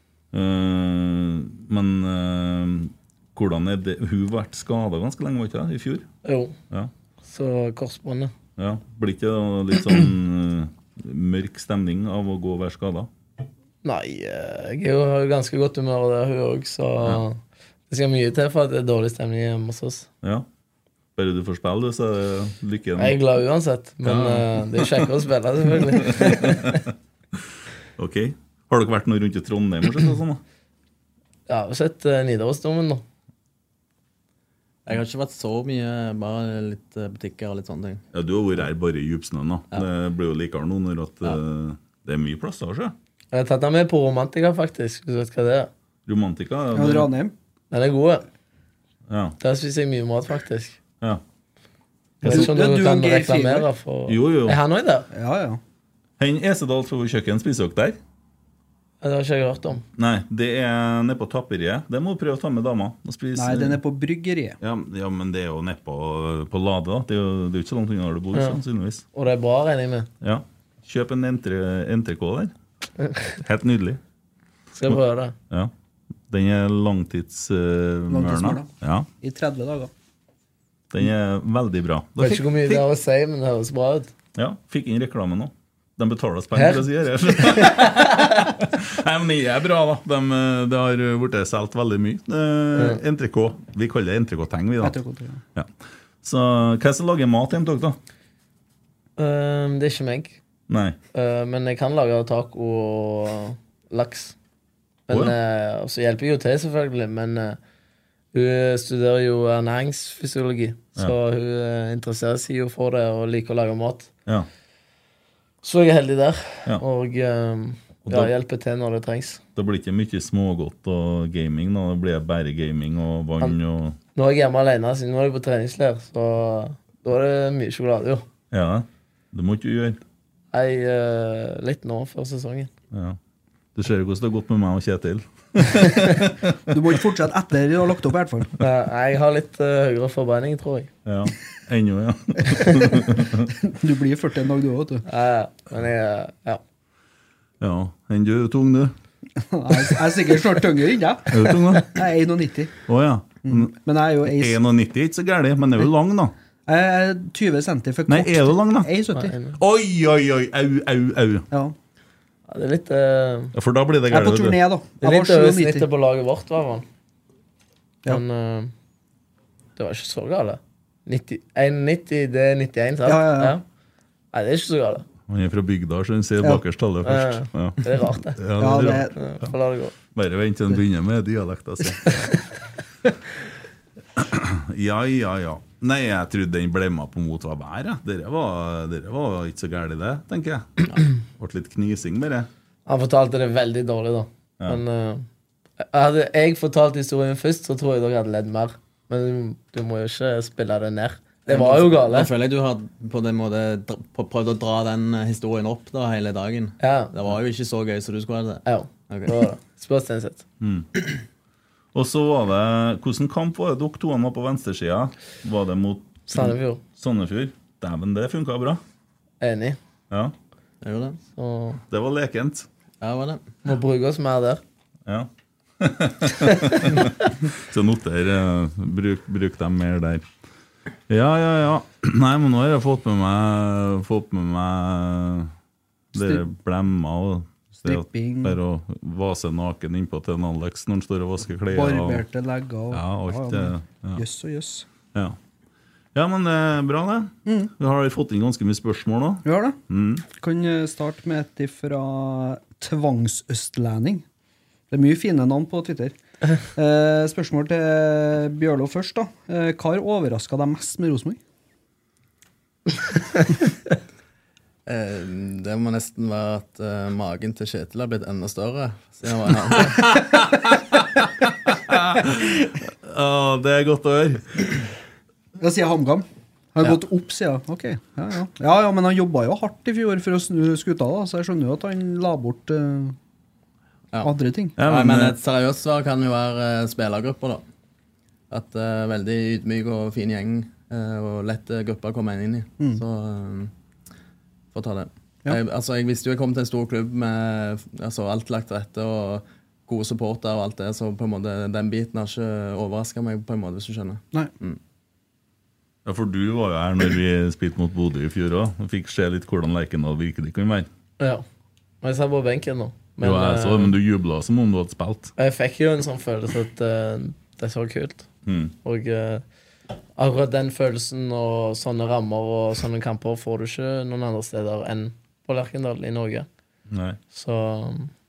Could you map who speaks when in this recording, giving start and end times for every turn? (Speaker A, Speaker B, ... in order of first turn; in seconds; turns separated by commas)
Speaker A: 0.3-6.1, Speaker B: 6.2-6.5, Speaker B: 7.3-8.3, Speaker A: 8.6-13.1, Speaker B: 13.8-20.1, Speaker A: 21.1-23.2, Speaker B: 23.0-26.8, Speaker A: 24.0-25.1, Speaker A: 25.7-27.4, Speaker A: 28.0-30.4, Speaker B: 31.5-33.0, Speaker C: 34.9-38.0, Speaker A: 38.1-42.9, Speaker B: 43.3-45.7, Speaker A: 46.1-47.1, Speaker D: 46.7-47.3, Speaker B: 47.7-48.2, Speaker A: 49.1-49.4, Speaker B: 49.4-50.8, Speaker A: 52.2-52.5, Speaker D: 52.2-53.7, Speaker B: 52.2-55.1, Speaker A: 54.1-54.6, Speaker D: 55.1-55.6, Speaker A: 56.2-58.0, Speaker B: 59.0-59.8, Speaker A: 60.0-63.8, Speaker D: 63.4-64.6, Speaker A: 64.6-69.0, Speaker B: 68.3-68.6, Speaker B: 69.1-70.1, Speaker A: 70.2-72.5, Speaker A: 73.4-74.0, Speaker B: 74.7-75.3, Speaker A: 76.3-79.1, Speaker D: 78.1-78.7, Speaker D: 79.2-79.9, Speaker A: 80.9-82.8, Speaker B: 82.2-84.1, Speaker A: 84.3-95.0, Speaker B: 86.5-88.4, Speaker D: 94.8-95.4, Speaker A: 96.2-98.0, Speaker B: 99.2-100.4, Speaker A: 100.7-101.0, Speaker B: 101.1-104.3, Speaker B: 105.1-107.6, Speaker A: 105.1-105.3, Speaker B: 108.3-114.1, Speaker B: 115.6-119.4, Speaker A: 118.0-118.3, Speaker A: 119.5-124.0, Speaker B: 124.1-128.2, Speaker A: 128.5-130.0, Speaker B: 130.5-132.7, Speaker A: 132.9-133.2, Speaker A: 133.7-136.5, Speaker D: 136.7-138.5, Speaker B: 138.6-140.9, Speaker A: 141.0-143.5, Speaker D: 143.6-145.0, Speaker B: 145.1-146.6, Speaker A: 147.6-148.9, Speaker D: 149.4-152.7, Speaker A: 151.3-152.0, Speaker A: 152.9-153.7, Speaker D: 153.4-154.6, Speaker A: 154.2-156.3, Speaker D: 156.7-159.3, Speaker A: 158.1-158.9, Speaker B: 159.1-159.6, Speaker A: 159.6-161.5, Speaker B: 162.5-163.5, Speaker A: 163.5-164.6, Speaker D: 164.1-165.9, Speaker B: 165.0-166.8, Speaker B: 168.1-168.7, Speaker B: 169.8-173.6, Speaker D: 173.0-173.6, Speaker B: 174.3-175.0, Speaker A: 175.3-179.1, Speaker B: 177.0-178.4, Speaker D: 178.6-179.2, Speaker B: 179.2-179.9, Speaker A: 180.1-182.2, Speaker A: 184.1-192.5, Speaker B: 192.9-195.2, Speaker B: 195.8-202.3, Speaker C: 201.5-209.4, Speaker B: 206.8-207.1, Speaker B: 208.7-210.4, Speaker A: 210.6-210.9, Speaker A: 211.9-218.8, Speaker B: 216.3-216.8, Speaker B: 219.4-219.8, Speaker C: 220.8-221.2, Speaker B: 221.3-221.8, Speaker A: 221.9-222.7, Speaker C: 223.0-223.4, Speaker B: 223.6-224.6, Speaker A: 225.1-230.2, Speaker B: 226.5-227.0, Speaker A: 231.1-235.5, Speaker A: 236.1-242.2, Speaker D: 237.8-238.6, Speaker D: 241.7-244.8, Speaker A: 242.9-244.2, Speaker A: 246.1-250.2, Speaker D: 247.4-247.7, Speaker D: 249.4-249.8, Speaker D: 250.3-254.2, Speaker D: 254.9-256.1, Speaker D: 256.7-261.4, Speaker C: 264.9-270.1, Speaker A: 269.9-274.8, Speaker D: 275.6-283.1, Speaker C: 284.1-287.6, Speaker D: 284.2-284.8, Speaker A: 284.8-285.4, Speaker C: 288.5-293.7, Speaker C: 294.7-304.8, Speaker A: 306.0-310.9, Speaker B: 312.0-313.9, Speaker A: 313.2-315.3, Speaker B: 315.4-318.3, Speaker A: 318.4-318.7, Speaker B: 318.8-319.4, Speaker B: 320.2-326.5, Speaker A: 326.9-327.2, Speaker B: 327.3-328.1